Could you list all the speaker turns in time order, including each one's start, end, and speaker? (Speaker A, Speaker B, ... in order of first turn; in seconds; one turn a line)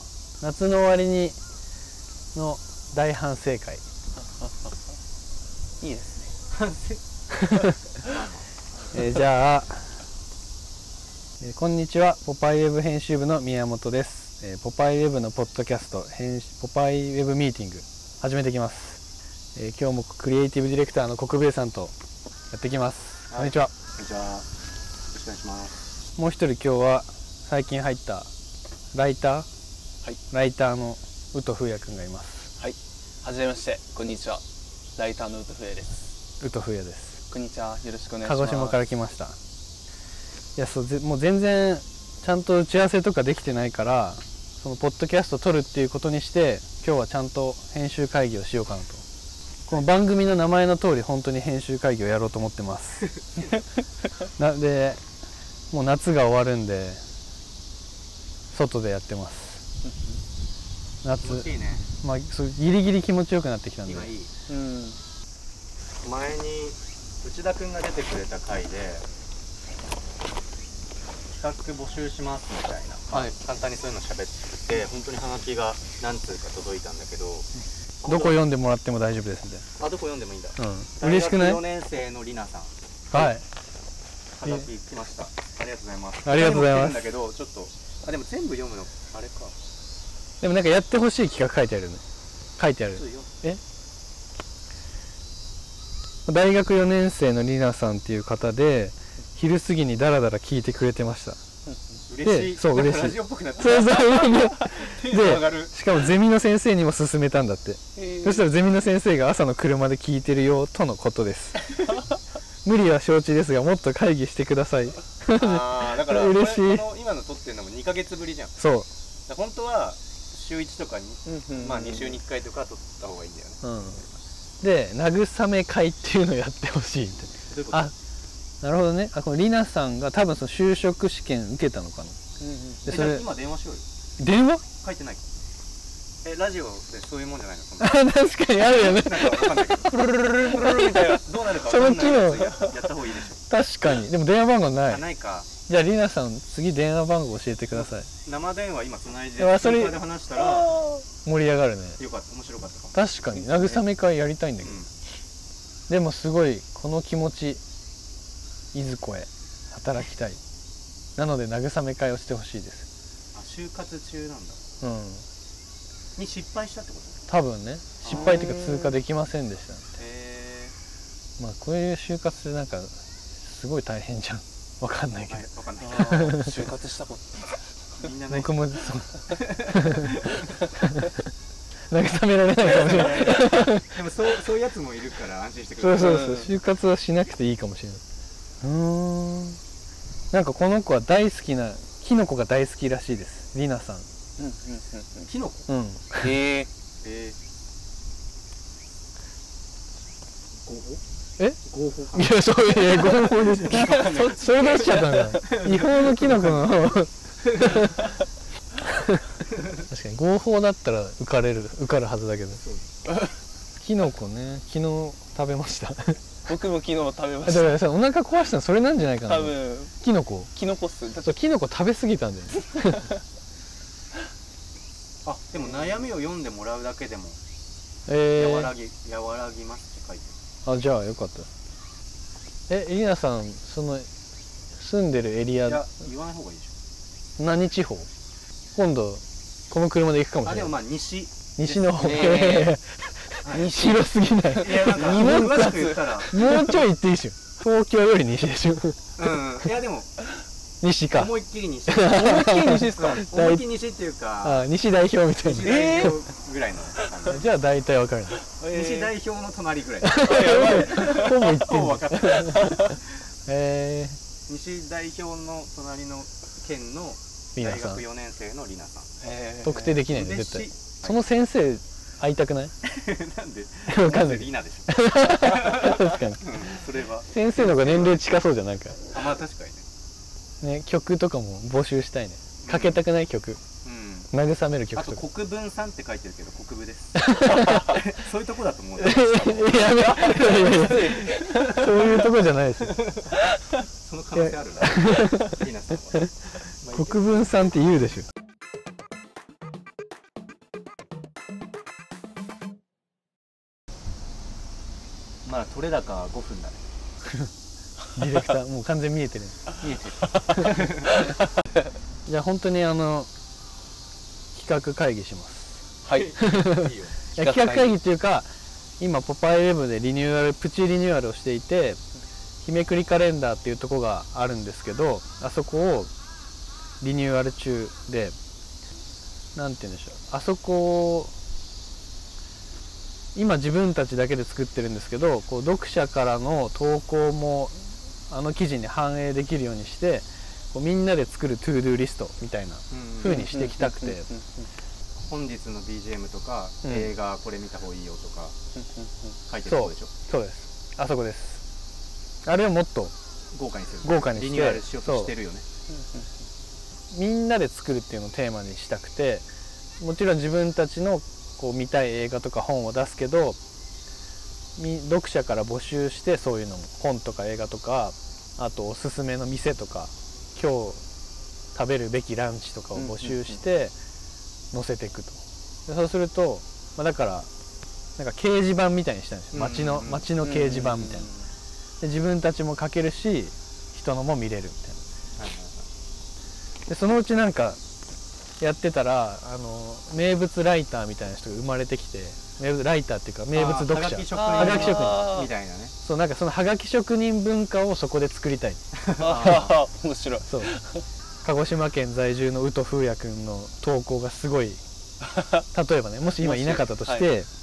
Speaker A: 0.4-1.4
Speaker A: 2.3-3.8
Speaker B: 4.2-4.8
Speaker B: 5.8-6.3
Speaker C: 6.5-7.0
Speaker A: 7.3-7.8
Speaker C: 7.9-8.4
Speaker A: 8.9-9.9
Speaker A: 11.4-19.0
Speaker A: 19.6-21.9
Speaker A: 22.5-23.7
Speaker C: 23.3-24.4
Speaker C: 25.1-25.7
Speaker A: 26.2-28.3
Speaker A: 28.9-29.5
Speaker A: 30.3-32.5
Speaker B: 32.6-34.4
Speaker B: 35.0-36.1
Speaker A: 36.4-37.2
Speaker B: 37.3-38.8
Speaker A: 38.2-39.3
Speaker A: 40.5-49.0
Speaker A: 49.7-53.1
Speaker A: 54.4-55.0
Speaker A: 55.7-57.0
Speaker A: 58.5-59.6
Speaker B: 59.8-60.2
Speaker A: 61.0-64.1
Speaker C: 61.2-61.8
Speaker C: 63.8-64.3
Speaker B: 64.5-65.0
Speaker C: 66.0-69.0
Speaker C: 71.3-77.5
Speaker C: 78.0-78.4
Speaker A: 78.1-79.7
Speaker C: 79.8-83.3
Speaker A: 80.6-81.6
Speaker A: 83.1-83.4
Speaker C: 84.4-89.6
Speaker A: 86.2-87.1
Speaker A: 90.4-92.0
Speaker A: 92.6-93.6
Speaker C: 93.0-93.3
Speaker A: 96.3-101.4
Speaker C: 102.1-105.7
Speaker A: 102.2-111.7
Speaker B: 108.0-108.5
Speaker A: 112.6-116.9
Speaker C: 115.4-118.6
Speaker A: 118.6-118.9
Speaker C: 119.3-124.1
Speaker B: 121.3-122.2
Speaker A: 123.6-124.0
Speaker A: 124.6-127.9
Speaker C: 127.5-127.9
Speaker A: 128.6-132.2
Speaker B: 132.4-132.9
Speaker C: 132.8-133.8
Speaker A: 132.9-133.3
Speaker A: 134.2-134.6
Speaker C: 134.8-135.2
Speaker C: 136.2-138.1
Speaker A: 137.8-142.7
Speaker C: 138.6-143.4
Speaker B: 140.0-141.2
Speaker A: 143.5-145.0
Speaker C: 144.9-145.5
Speaker A: 145.7-148.1
Speaker C: 147.7-150.8
Speaker A: 149.4-150.0
Speaker B: 150.6-150.9
Speaker A: 151.2-152.0
Speaker C: 152.0-153.8
Speaker A: 152.9-154.8
Speaker C: 154.6-154.9
Speaker A: 155.9-157.6
Speaker A: 158.7-160.4
Speaker A: 161.2-162.8
Speaker C: 163.3-164.6
Speaker A: 164.8-165.2
Speaker C: 166.2-167.2
Speaker A: 167.3-169.9
Speaker C: 168.0-168.4
Speaker B: 168.1-169.0
Speaker C: 170.0-170.7
Speaker A: 171.4-175.4
Speaker C: 175.3-176.3
Speaker B: 175.8-178.1
Speaker A: 175.9-176.6
Speaker C: 178.0-178.6
Speaker A: 178.3-180.2
Speaker C: 179.3-180.6
Speaker A: 180.8-181.2
Speaker A: 181.9-183.9
Speaker C: 182.6-186.4
Speaker A: 185.8-188.0
Speaker B: 186.0-186.5
Speaker A: 188.6-189.6
Speaker A: 190.3-194.1
Speaker B: 194.4-195.3
Speaker C: 195.3-195.7
Speaker A: 195.7-196.3
Speaker B: 196.2-196.7
Speaker C: 197.0-197.3
Speaker C: 200.6-201.0
Speaker C: 201.6-206.7
Speaker A: 202.1-208.1
Speaker B: 203.7-205.3
Speaker C: 207.5-207.8
Speaker A: 208.8-212.6
Speaker C: 212.6-212.9
Speaker A: 213.8-216.2
Speaker B: 216.5-217.8
Speaker A: 217.4-220.5
Speaker B: 219.2-219.9
Speaker B: 220.5-221.3
Speaker A: 221.2-223.1
Speaker C: 225.2-227.4
Speaker A: 228.1-228.7
Speaker C: 228.3-230.3
Speaker A: 230.6-231.5
Speaker A: 232.7-234.1
Speaker A: 234.8-235.8
Speaker C: 235.7-236.7
Speaker A: 237.4-238.1
Speaker A: 238.8-240.8
Speaker C: 240.4-242.5
Speaker A: 241.6-249.1
Speaker B: 242.0-242.7
Speaker C: 243.4-243.7
Speaker B: 243.5-246.8
Speaker C: 244.6-246.5
Speaker C: 249.2-250.1
Speaker A: 250.8-251.3
Speaker C: 251.1-254.7
Speaker A: 251.9-253.6
Speaker B: 252.0-253.2
Speaker A: 254.4-256.0
Speaker C: 255.4-257.5
Speaker B: 255.6-256.2
Speaker A: 257.3-258.4
Speaker B: 258.5-259.1
Speaker C: 258.6-262.9
Speaker A: 260.0-264.2
Speaker B: 260.2-261.5
Speaker C: 264.5-269.1
Speaker A: 267.6-268.0
Speaker B: 269.2-270.0
Speaker A: 269.6-272.7
Speaker C: 270.1-271.2
Speaker C: 272.8-278.2
Speaker A: 273.9-276.5
Speaker A: 277.3-279.0
Speaker C: 279.1-279.8
Speaker A: 280.6-283.6
Speaker C: 282.6-283.0
Speaker C: 283.8-284.3
Speaker A: 284.3-285.2
Speaker C: 284.9-291.4
Speaker A: 287.1-288.0
Speaker A: 289.0-293.1
Speaker B: 290.1-292.1
Speaker C: 292.9-293.3
Speaker C: 294.0-296.3
Speaker A: 294.4-295.6
Speaker C: 296.8-297.4
Speaker A: 296.9-298.3
Speaker C: 305.4-306.8
Speaker A: 308.1-309.6
Speaker C: 309.8-311.2
Speaker A: 312.3-313.3
Speaker A: 314.5-315.8
Speaker B: 316.0-316.3
Speaker C: 316.1-317.1
Speaker A: 316.4-318.5
Speaker B: 317.4-317.9
Speaker A: 319.0-322.0
Speaker A: 322.6-326.1
Speaker A: 327.0-328.4
Speaker A: 329.6-331.3
Speaker A: 333.3-344.3
Speaker C: 342.9-343.5
Speaker B: 343.2-344.7
Speaker C: 345.2-348.6
Speaker A: 346.8-347.1
Speaker B: 348.8-349.4
Speaker C: 349.5-350.1
Speaker A: 349.6-351.6
Speaker A: 352.4-353.1
Speaker C: 353.5-355.6
Speaker A: 354.0-355.3
Speaker B: 355.9-356.3
Speaker A: 357.1-359.4
Speaker A: 360.0-363.6
Speaker A: 364.8-371.0
Speaker A: 371.7-373.9
Speaker B: 372.9-373.6
Speaker A: 374.7-377.5
Speaker A: 378.2-381.3
Speaker C: 379.5-380.3
Speaker B: 380.4-381.5
Speaker A: 382.0-385.0
Speaker C: 385.4-385.9
Speaker A: 386.9-387.8
Speaker A: 388.6-395.4
Speaker C: 393.5-395.9
Speaker B: 394.3-395.5
Speaker A: 396.0-398.8
Speaker C: 399.0-399.8
Speaker B: 399.2-401.1
Speaker A: 400.4-400.8
Speaker A: 401.4-404.8
Speaker B: 405.2-405.6
Speaker A: 405.7-407.5
Speaker B: 406.4-407.3